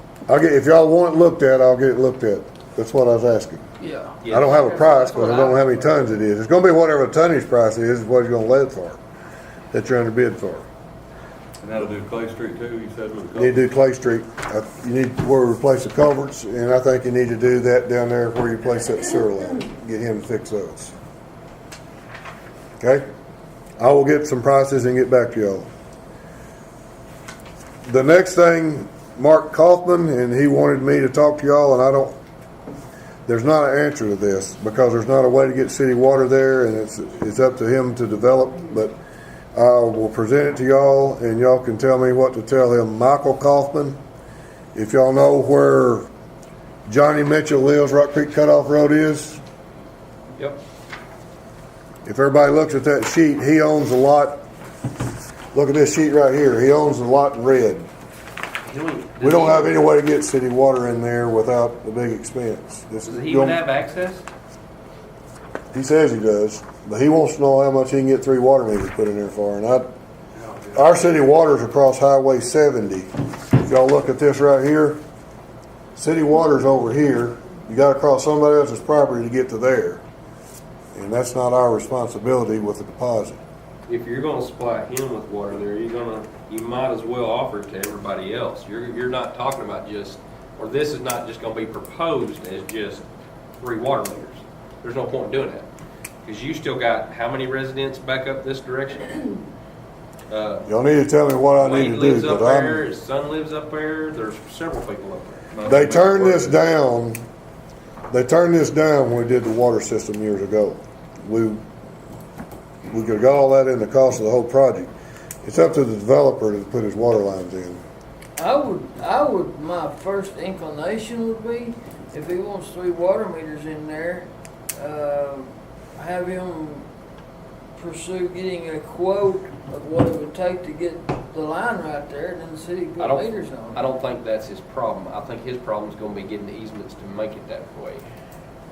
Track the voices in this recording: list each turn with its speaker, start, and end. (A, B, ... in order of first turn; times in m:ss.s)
0:00.3-0:03.6 A
0:03.8-0:05.7 B
0:04.2-0:04.6 C
0:04.3-0:09.0 A
0:09.7-0:10.6 A
0:11.6-0:13.6 D
0:13.3-0:20.9 A
0:22.8-0:23.0 A
0:23.8-0:25.7 A
0:27.8-0:32.2 A
0:33.2-0:39.0 A
0:39.5-0:44.0 A
0:44.7-0:46.1 A
0:46.9-0:49.4 A
0:52.0-0:54.4 A
0:55.5-0:57.9 A
0:58.7-0:59.8 C
0:59.2-1:03.6 A
1:03.0-1:04.2 C
1:05.7-1:09.9 A
1:10.7-1:15.0 A
1:15.9-1:20.0 A
1:20.9-1:23.4 A
1:23.9-1:33.0 C
1:33.6-1:35.7 C
1:36.2-1:39.4 C
1:40.3-1:40.6 C
1:40.6-1:42.8 A
1:41.6-1:45.4 C
1:45.5-1:46.5 D
1:45.6-1:47.2 A
1:48.1-1:51.6 A
1:52.9-1:54.9 A
1:55.4-1:57.8 A
1:58.4-2:06.9 B
2:07.8-2:13.9 B
2:13.0-2:18.0 C